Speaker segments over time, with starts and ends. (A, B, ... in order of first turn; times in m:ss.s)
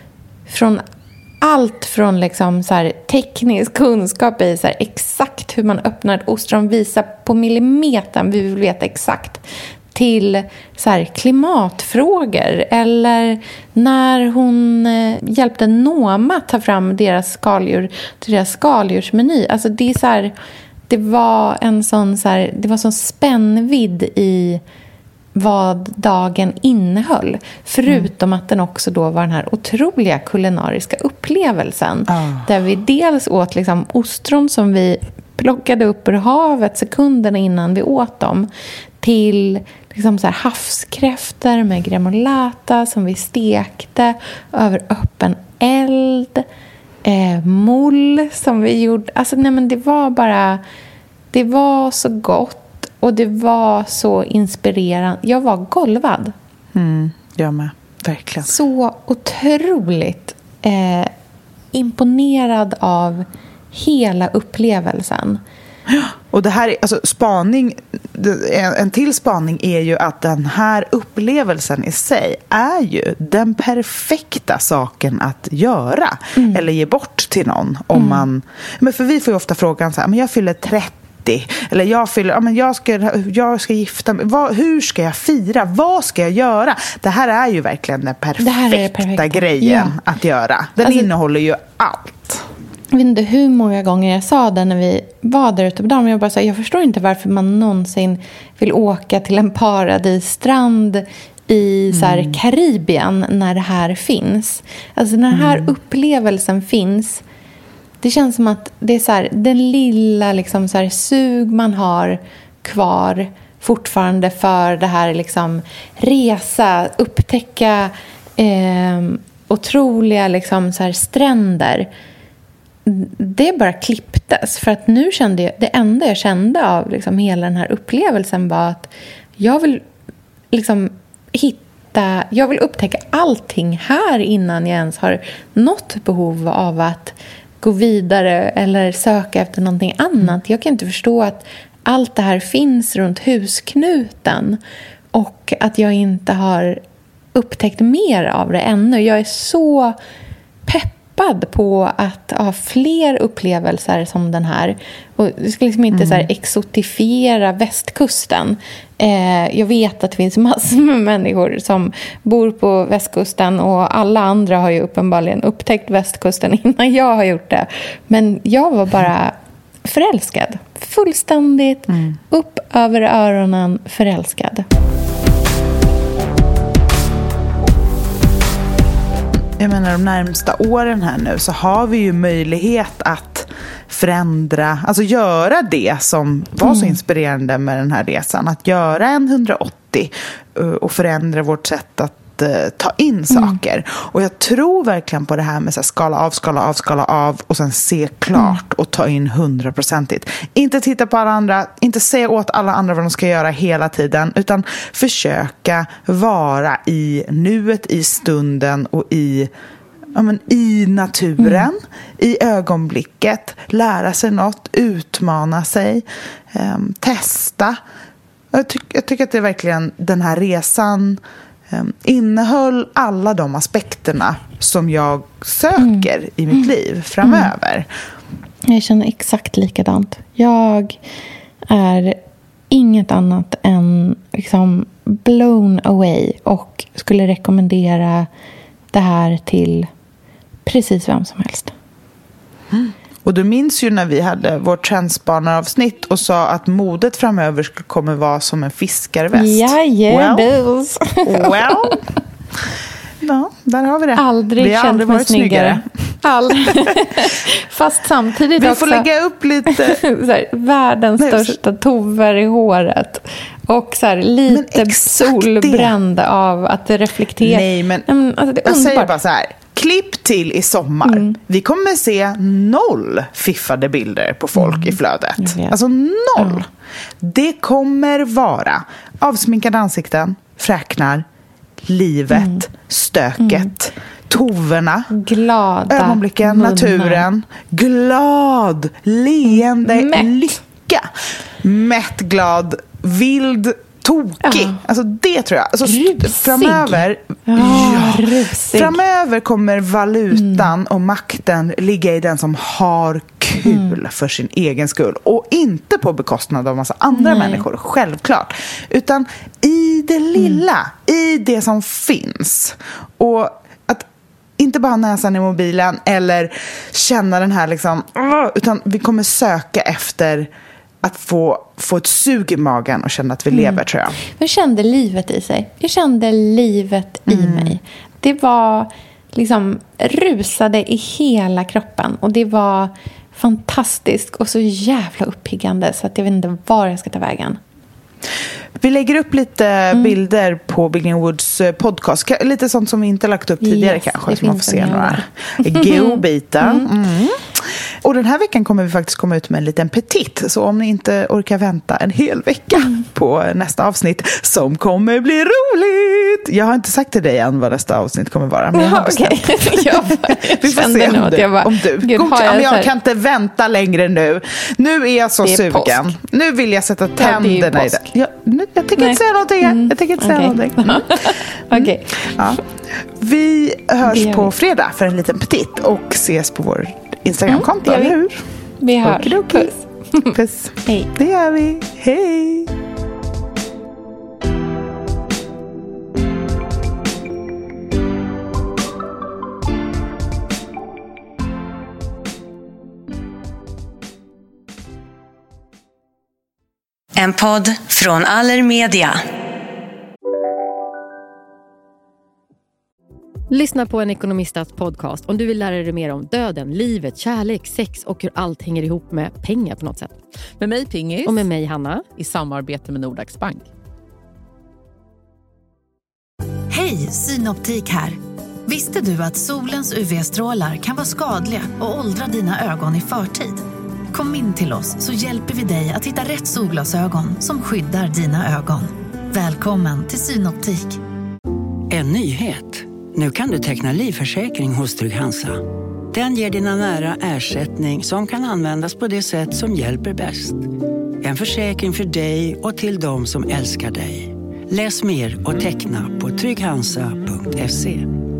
0:00.5-0:00.8 A
0:01.4-0:20.3 A
0:20.9-0:24.6 A
0:25.3-0:38.5 A
0:32.1-0:32.5 B
0:39.0-0:46.4 A
0:47.0-0:50.6 A
0:51.3-0:56.3 A
0:56.7-0:58.5 B
0:58.4-1:01.1 A
1:01.7-1:05.4 A
1:05.9-1:32.4 B
1:16.4-1:16.6 A
1:17.9-1:18.2 A
1:28.4-1:30.0 A
1:30.8-1:31.1 A
1:32.9-1:47.2 A
1:41.9-1:42.4 B
1:45.3-1:45.7 B
1:48.0-2:01.9 A
2:02.8-2:09.8 A
2:10.5-2:24.6 A
2:25.1-2:26.8 A
2:27.3-2:29.9 A
2:30.6-2:54.6 A
2:35.9-2:36.3 B
2:51.9-2:52.1 B
2:59.6-3:29.5 B
3:06.6-3:07.0 A
3:13.3-3:13.6 A
3:18.3-3:18.6 A
3:30.1-3:37.8 B
3:31.4-3:31.7 A
3:38.5-3:47.9 B
3:45.8-3:46.6 A
3:47.2-3:47.5 A
3:48.7-3:51.0 A
3:51.7-3:52.2 A
3:52.7-3:58.3 A
3:58.9-3:59.9 A
4:00.6-4:01.7 A
4:02.7-4:10.5 B
4:09.3-4:12.0 A
4:11.2-4:12.0 B
4:13.2-4:17.0 B
4:14.2-4:19.1 A
4:18.6-4:20.0 B
4:19.7-4:29.1 A
4:21.2-4:21.5 B
4:24.5-4:26.0 B
4:27.4-4:28.1 B
4:28.6-4:36.7 B
4:31.0-4:31.3 A
4:34.5-4:35.8 A
4:36.4-4:36.6 A
4:37.2-4:41.2 B
4:41.8-4:45.1 B
4:42.3-4:42.6 A
4:43.4-4:43.7 A
4:45.1-4:47.2 A
4:45.9-4:51.1 B
4:49.5-4:50.6 A
4:51.6-5:14.1 B
4:54.4-4:54.8 A
4:55.8-4:59.0 A
5:00.3-5:00.7 A
5:03.6-5:03.9 A
5:07.1-5:07.6 A
5:14.6-5:20.5 B
5:21.0-5:24.2 B
5:23.5-5:37.6 A
5:27.3-5:27.8 B
5:38.8-6:12.6 B
5:43.6-5:46.9 A
5:58.7-6:02.9 A
6:05.4-6:06.2 A
6:07.2-6:08.0 A
6:09.0-6:12.6 A
6:13.2-6:18.4 B
6:14.0-6:14.5 A
6:17.5-6:18.2 A
6:18.8-6:20.3 A
6:19.0-6:19.7 B
6:20.3-6:22.7 B
6:20.8-6:21.1 A
6:37.2-6:39.2 C
6:43.5-6:50.2 D
6:50.6-6:51.3 E
6:51.2-6:52.1 D
6:52.2-6:53.6 E
6:56.7-7:11.0 C
7:11.9-7:20.7 F
7:21.2-7:28.1 F